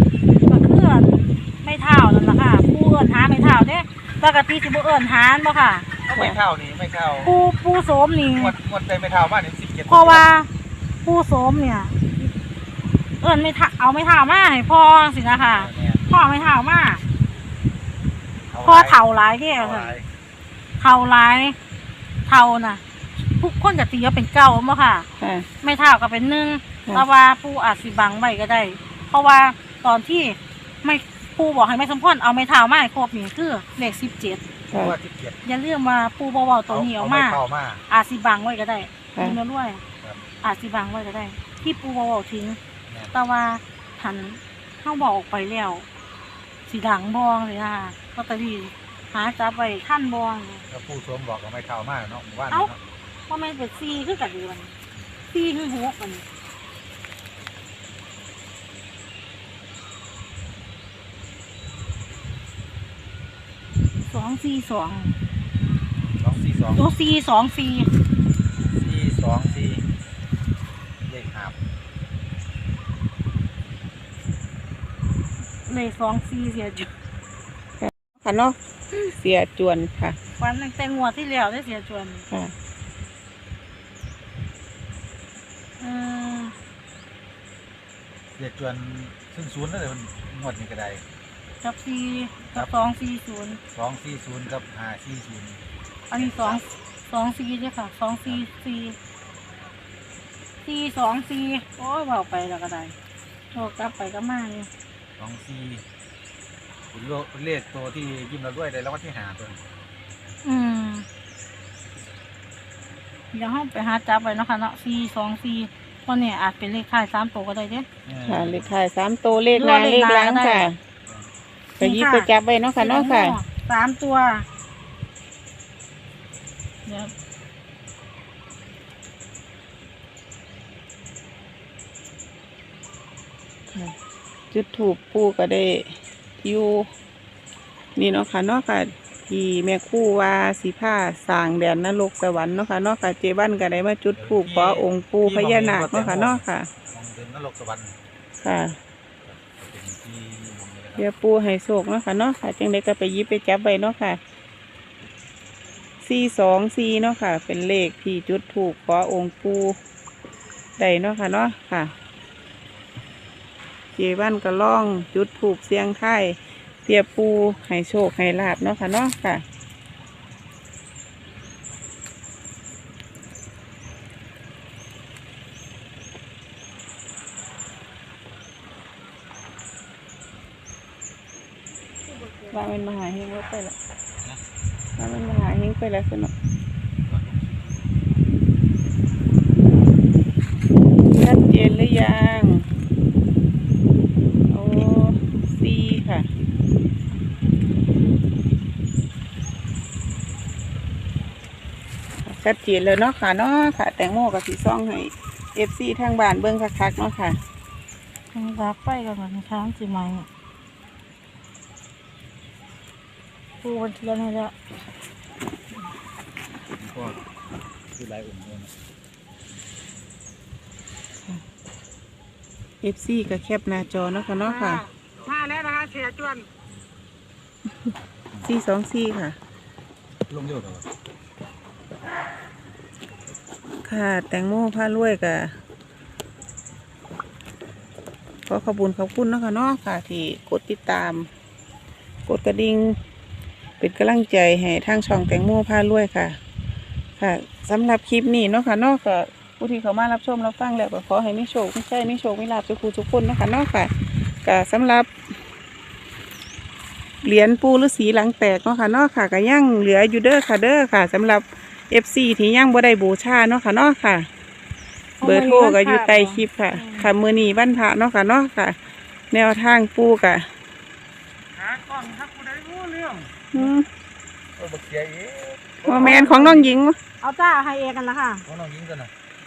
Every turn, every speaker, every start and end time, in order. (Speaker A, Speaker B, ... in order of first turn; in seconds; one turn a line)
Speaker A: 0.5-5.9
Speaker B: 6.0-7.3
Speaker A: 7.2-8.5
Speaker B: 8.3-10.3
Speaker A: 9.9-10.5
Speaker A: 11.0-12.3
Speaker A: 13.2-17.0
Speaker B: 15.5-16.1
Speaker B: 18.5-19.0
Speaker A: 18.6-19.9
Speaker B: 19.6-20.1
Speaker A: 20.8-21.6
Speaker A: 22.3-25.1
Speaker C: 25.2-25.5
Speaker A: 25.6-34.4
Speaker B: 34.7-35.4
Speaker A: 35.4-39.8
Speaker B: 36.7-37.8
Speaker A: 40.4-42.6
Speaker B: 42.9-43.1
Speaker A: 43.1-45.9
Speaker A: 46.7-50.6
Speaker B: 50.7-52.8
Speaker A: 53.3-54.7
Speaker A: 55.3-56.2
Speaker A: 64.0-65.2
Speaker B: 66.2-66.9
Speaker A: 66.8-67.9
Speaker B: 68.8-69.8
Speaker B: 71.0-71.6
Speaker A: 75.7-76.9
Speaker C: 77.8-80.2
Speaker A: 80.4-82.3
Speaker A: 85.8-86.5
Speaker B: 88.4-91.0
Speaker A: 91.6-93.6
Speaker B: 93.7-95.6
Speaker A: 96.1-99.0
Speaker B: 96.1-96.6
Speaker A: 100.7-102.9
Speaker A: 103.5-104.7
Speaker B: 105.2-105.8
Speaker B: 106.9-109.6
Speaker A: 110.4-111.1
Speaker A: 113.3-117.9
Speaker B: 118.1-118.7
Speaker C: 118.3-120.8
Speaker A: 119.5-120.7
Speaker C: 121.8-123.4
Speaker A: 121.8-124.5
Speaker A: 126.9-127.1
Speaker C: 134.5-136.9
Speaker C: 138.0-146.7
Speaker B: 144.2-147.9
Speaker C: 148.4-148.8
Speaker B: 149.2-151.1
Speaker C: 151.0-154.2
Speaker C: 156.0-159.8
Speaker C: 160.8-161.9
Speaker C: 164.0-169.4
Speaker A: 182.1-182.6
Speaker C: 182.5-183.8
Speaker C: 185.0-186.3
Speaker B: 187.1-187.5
Speaker C: 191.1-192.7
Speaker C: 194.5-196.3
Speaker C: 202.2-207.4
Speaker A: 208.3-210.3
Speaker A: 213.6-214.5
Speaker B: 216.8-217.2
Speaker B: 218.0-218.7
Speaker C: 222.8-224.8
Speaker A: 224.5-226.4
Speaker C: 228.4-229.4
Speaker B: 230.3-230.9
Speaker C: 233.8-235.5
Speaker C: 238.5-241.3
Speaker C: 242.3-243.0
Speaker C: 243.8-246.4
Speaker C: 247.2-255.1
Speaker C: 257.2-264.3
Speaker A: 265.2-267.1
Speaker C: 265.2-268.8
Speaker C: 269.3-270.5
Speaker B: 271.6-273.3
Speaker C: 273.5-273.9
Speaker B: 274.6-276.6
Speaker C: 275.9-277.0
Speaker A: 276.0-276.6
Speaker A: 277.2-278.4
Speaker B: 278.5-279.1